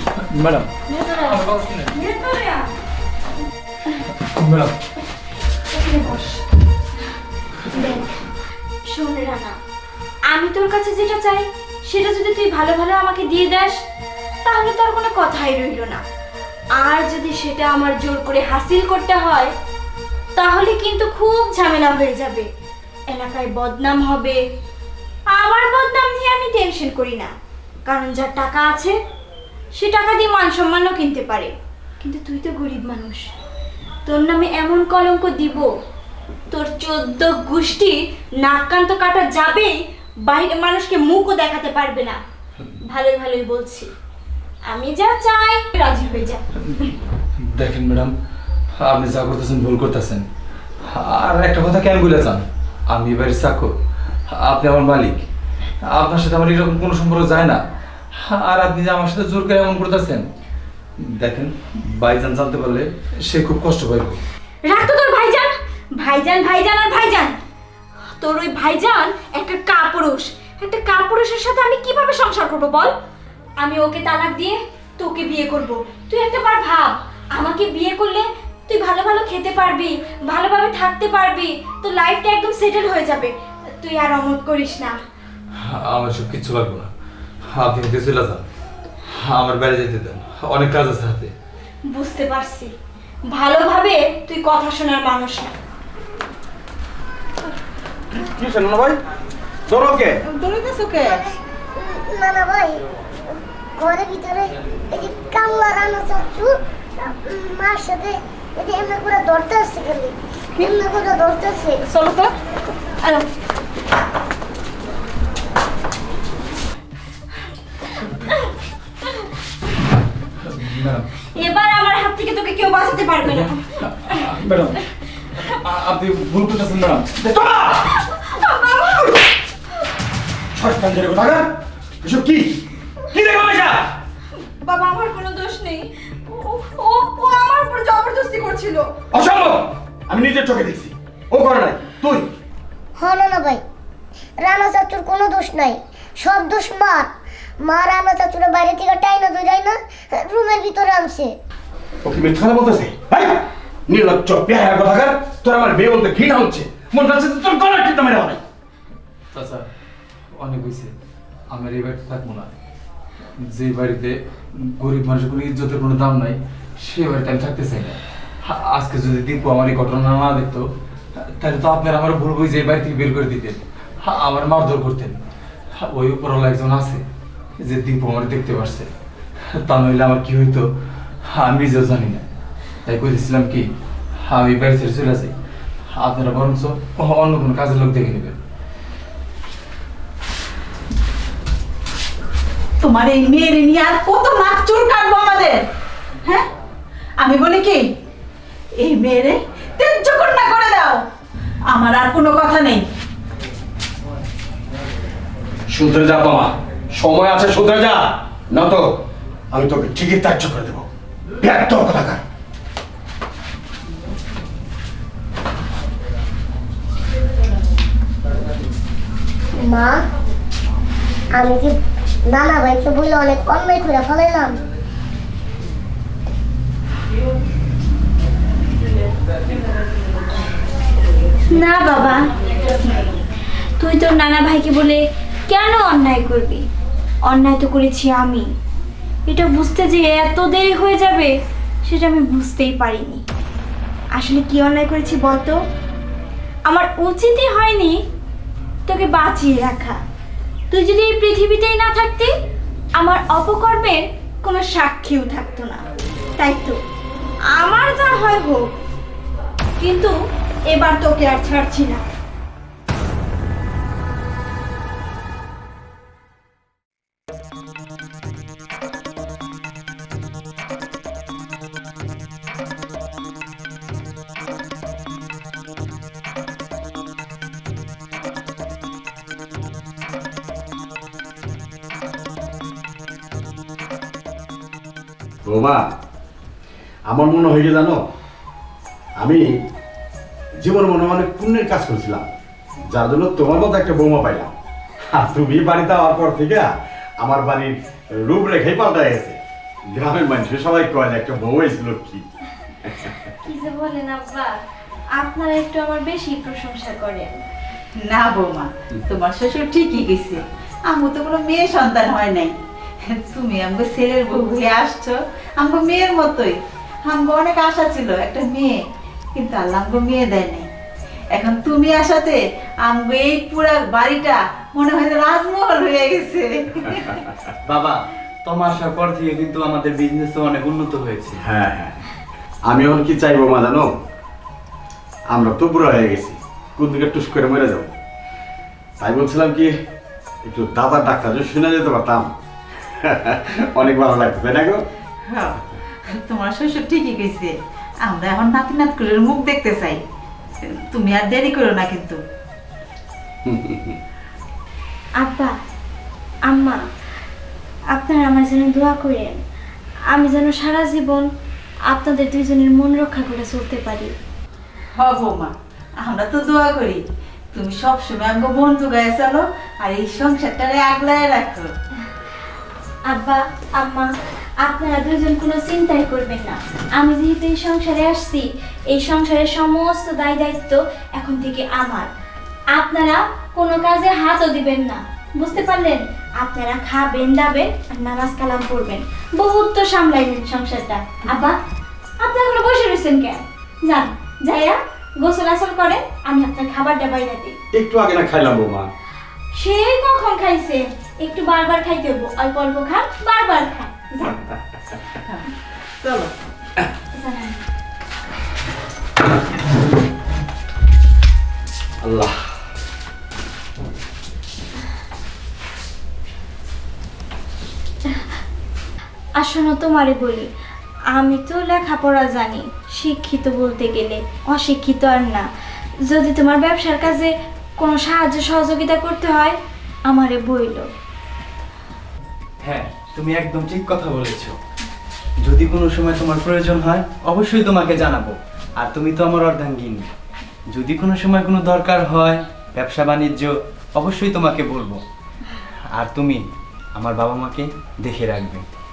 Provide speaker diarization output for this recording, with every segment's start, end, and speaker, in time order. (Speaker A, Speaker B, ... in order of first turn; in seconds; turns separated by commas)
Speaker A: 0.3-0.7, Speaker B: 0.9-2.7, Speaker A: 1.2-1.9, Speaker A: 4.1-4.8, Speaker B: 5.7-6.4, Speaker B: 7.7-8.3, Speaker B: 8.9-9.6, Speaker B: 10.3-13.8, Speaker B: 14.4-16.0, Speaker B: 16.8-19.5, Speaker B: 20.4-22.5, Speaker B: 23.1-24.4, Speaker B: 25.3-27.3, Speaker B: 27.9-29.0, Speaker B: 29.8-33.3, Speaker B: 34.0-35.7, Speaker B: 36.5-42.2, Speaker B: 42.9-43.9, Speaker B: 44.7-46.4, Speaker A: 47.4-48.1, Speaker A: 48.8-50.2, Speaker A: 50.9-53.7, Speaker A: 54.3-55.2, Speaker A: 55.8-57.6, Speaker A: 58.1-60.2, Speaker A: 61.0-64.2, Speaker B: 64.7-67.4, Speaker B: 68.2-72.9, Speaker B: 73.6-85.0, Speaker A: 85.6-86.9, Speaker A: 87.5-88.4, Speaker A: 89.1-91.3, Speaker B: 91.9-92.7, Speaker B: 93.3-95.5, Speaker C: 98.1-99.0, Speaker C: 99.7-100.2, Speaker D: 100.2-101.2, Speaker E: 101.8-102.8, Speaker E: 103.8-111.8, Speaker D: 111.9-112.3, Speaker A: 120.4-121.1, Speaker B: 121.3-124.3, Speaker A: 123.2-127.1, Speaker C: 127.1-127.9, Speaker B: 127.8-129.3, Speaker C: 130.5-131.5, Speaker C: 132.0-133.9, Speaker B: 134.6-138.9, Speaker C: 139.1-142.3, Speaker E: 143.0-143.6, Speaker E: 144.4-147.1, Speaker E: 147.6-151.3, Speaker C: 152.0-158.4, Speaker A: 159.3-159.7, Speaker A: 160.4-160.9, Speaker A: 161.5-162.5, Speaker A: 163.4-170.7, Speaker A: 171.4-175.2, Speaker A: 175.8-177.0, Speaker A: 177.6-178.9, Speaker A: 179.5-180.7, Speaker A: 181.3-182.2, Speaker A: 182.8-183.7, Speaker A: 184.2-185.3, Speaker A: 185.9-188.4, Speaker D: 192.8-195.6, Speaker D: 197.2-197.9, Speaker D: 198.8-201.0, Speaker D: 201.7-202.9, Speaker C: 205.7-209.0, Speaker C: 209.5-210.9, Speaker C: 211.4-212.2, Speaker E: 219.6-220.0, Speaker E: 221.3-224.6, Speaker B: 231.5-233.1, Speaker B: 233.8-236.6, Speaker B: 237.3-238.5, Speaker B: 239.3-241.3, Speaker B: 241.8-243.2, Speaker B: 244.1-245.6, Speaker B: 246.7-248.0, Speaker B: 248.9-250.0, Speaker B: 250.7-252.3, Speaker B: 253.0-255.8, Speaker B: 256.4-256.8, Speaker B: 257.5-258.8, Speaker B: 259.8-260.1, Speaker B: 260.7-262.0, Speaker C: 285.4-285.8, Speaker C: 287.1-288.0, Speaker C: 289.2-289.5, Speaker C: 290.6-292.3, Speaker C: 292.9-294.5, Speaker C: 295.1-299.4, Speaker C: 299.9-302.2, Speaker C: 302.8-303.1, Speaker B: 303.4-304.6, Speaker B: 305.1-307.4, Speaker D: 308.0-318.8, Speaker D: 319.4-320.7, Speaker D: 321.3-327.1, Speaker F: 327.6-331.4, Speaker C: 331.4-332.0, Speaker C: 332.6-333.9, Speaker C: 335.3-337.9, Speaker C: 339.0-339.7, Speaker C: 340.4-342.3, Speaker C: 342.8-344.8, Speaker D: 345.3-350.0, Speaker D: 350.9-352.2, Speaker C: 353.4-354.0, Speaker B: 355.2-355.5, Speaker B: 356.4-356.8, Speaker B: 357.9-359.4, Speaker B: 360.1-361.3, Speaker B: 361.9-364.1, Speaker D: 364.9-367.0, Speaker D: 367.5-371.7, Speaker B: 373.1-382.1, Speaker B: 382.7-391.6, Speaker B: 392.2-397.6, Speaker C: 397.7-398.9, Speaker B: 399.5-404.4, Speaker D: 406.0-406.3, Speaker B: 407.1-407.6, Speaker C: 412.0-412.4, Speaker B: 419.4-420.5, Speaker B: 421.1-425.5, Speaker B: 426.0-430.9, Speaker F: 432.6-434.6, Speaker F: 435.4-440.1, Speaker F: 440.7-445.0, Speaker F: 445.9-446.4, Speaker F: 447.0-448.6